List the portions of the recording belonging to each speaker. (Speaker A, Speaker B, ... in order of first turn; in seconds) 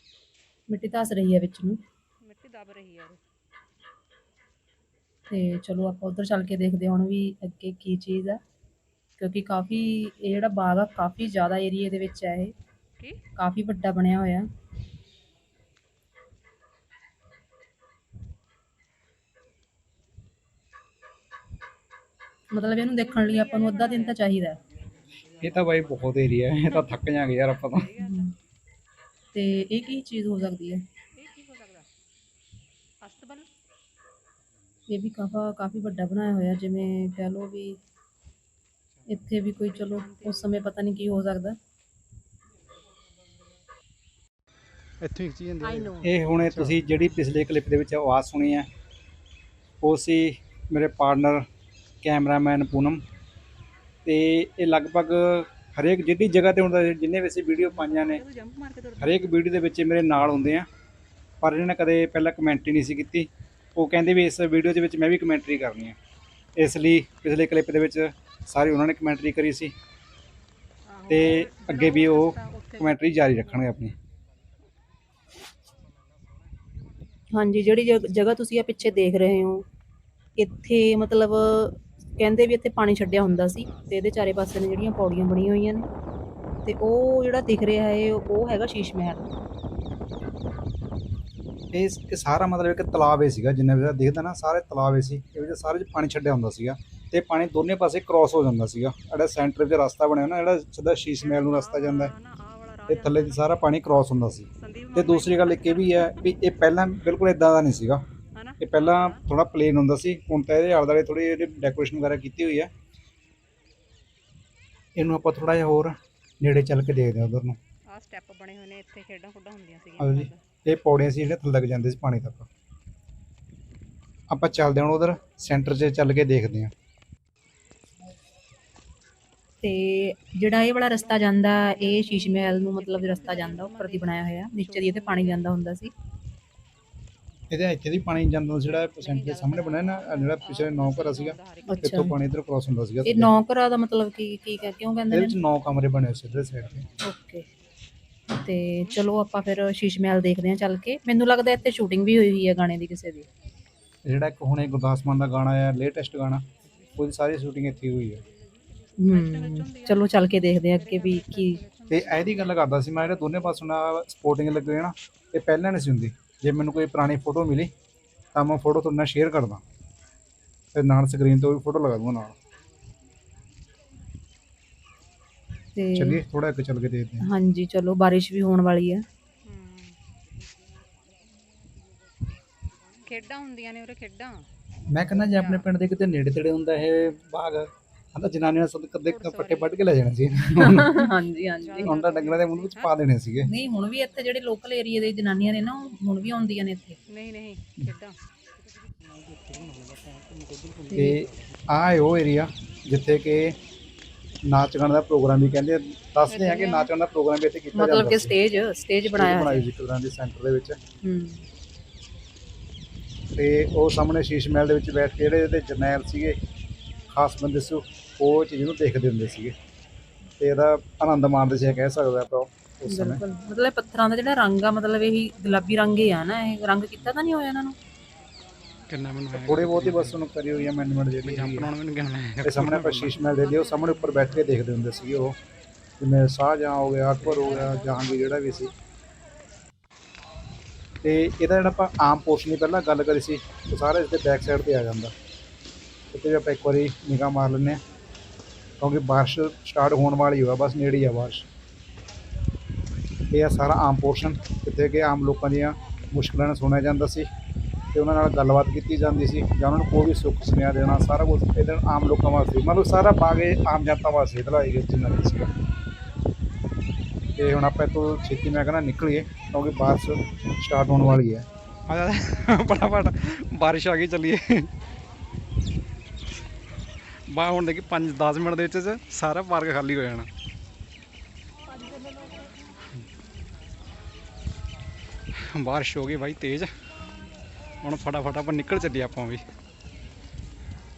Speaker A: 0.7-1.8, 5.3-8.4, 9.2-12.5, 13.3-14.4, 22.5-24.6, 28.0-28.3, 29.3-30.8, 34.9-37.8, 39.1-41.6, 45.6-46.0, 77.3-79.7, 80.4-85.8, 86.6-89.3, 129.6-135.9, 141.6-142.2, 143.0-145.4, 147.0-147.4, 148.3-153.3, 159.0-161.6, 175.8-176.2, 177.2-179.0, 190.5-192.0, 193.4-197.0, 200.9-201.2, 206.3-206.9, 207.7-209.7, 211.0-211.4, 222.9-227.8
Speaker B: 2.2-3.2, 23.1-24.2, 27.7-28.3, 31.1-31.9, 33.0-33.5, 39.5-40.7, 57.6-59.3, 70.9-73.4, 83.3-83.9, 101.2-103.4, 104.5-106.2, 108.3-109.2, 117.9-120.4, 131.0-135.5, 138.6-142.1, 159.0-162.9, 179.4-180.0, 183.0-184.5, 185.3-185.7, 189.1-189.8, 191.6-192.9, 197.1-198.2, 233.4-234.5, 237.2-238.7, 281.7-282.4
Speaker C: 25.4-27.9, 46.0-48.7, 49.8-51.5, 52.0-53.0, 54.0-58.2, 59.0-60.7, 61.4-66.0, 66.5-69.7, 71.1-73.9, 91.7-102.1, 102.9-108.0, 108.6-112.7, 115.0-117.6, 120.0-122.5, 124.3-126.7, 137.5-143.3, 145.1-146.9, 154.1-158.2, 161.9-167.7, 168.3-169.6, 170.7-172.3, 175.9-177.3, 184.9-190.9, 191.8-193.5, 200.9-203.6, 204.5-208.4, 209.1-210.8, 213.3-216.4, 217.1-219.5, 220.4-223.2, 229.3-231.7, 232.4-235.3, 236.0-238.7, 241.0-245.1, 246.1-247.8, 248.8-251.5, 253.3-257.3, 257.9-265.5, 267.4-271.4
Speaker D: 45.0-46.8, 199.3-201.1, 228.9-230.2, 231.2-233.2, 271.9-274.7, 277.3-280.3, 285.4-286.7, 287.8-289.4